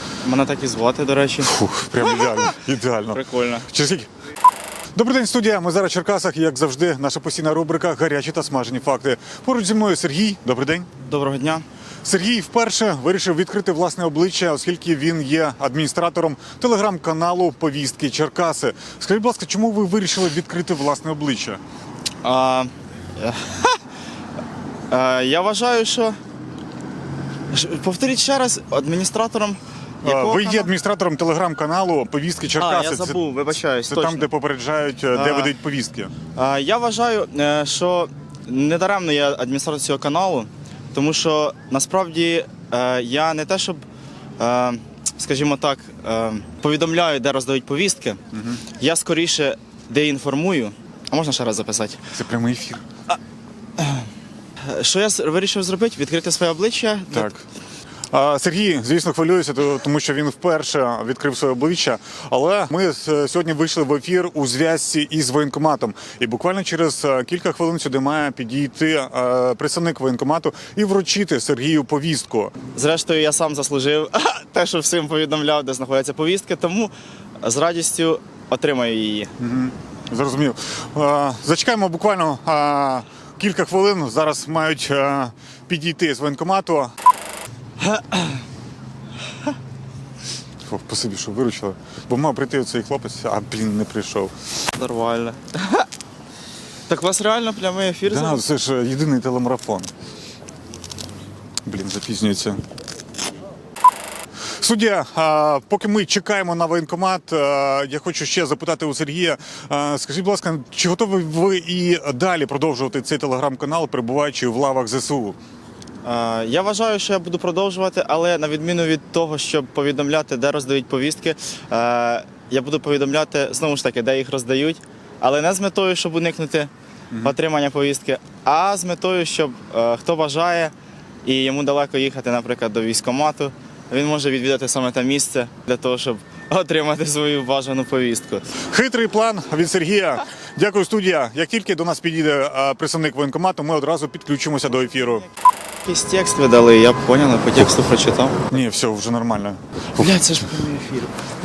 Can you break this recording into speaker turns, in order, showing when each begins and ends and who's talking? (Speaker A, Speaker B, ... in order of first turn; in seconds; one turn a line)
Speaker A: 0.2-3.7
Speaker B: 1.4-4.1
Speaker B: 5.0-10.9
Speaker A: 11.1-11.6
Speaker B: 12.0-21.6
Speaker A: 22.2-23.8
Speaker A: 24.9-26.2
Speaker A: 27.5-30.7
Speaker B: 30.0-33.2
Speaker A: 32.5-34.3
Speaker B: 33.9-36.1
Speaker A: 35.1-35.5
Speaker A: 36.3-43.8
Speaker A: 44.4-48.2
Speaker B: 48.3-48.6
Speaker A: 48.7-52.1
Speaker B: 52.1-52.8
Speaker A: 53.8-54.1
Speaker A: 54.7-57.3
Speaker B: 57.1-57.4
Speaker B: 58.1-72.5
Speaker A: 72.7-79.3
Speaker B: 79.4-86.9
Speaker A: 87.8-88.4
Speaker B: 90.7-94.3
Speaker A: 94.7-95.9
Speaker A: 96.9-98.4
Speaker B: 98.0-99.9
Speaker B: 101.6-102.6
Speaker B: 104.6-115.4
Speaker A: 116.0-130.7
Speaker A: 131.2-138.5
Speaker B: 138.6-145.2
Speaker A: 144.8-145.3
Speaker A: 145.8-148.4
Speaker B: 148.5-150.2
Speaker A: 149.9-151.2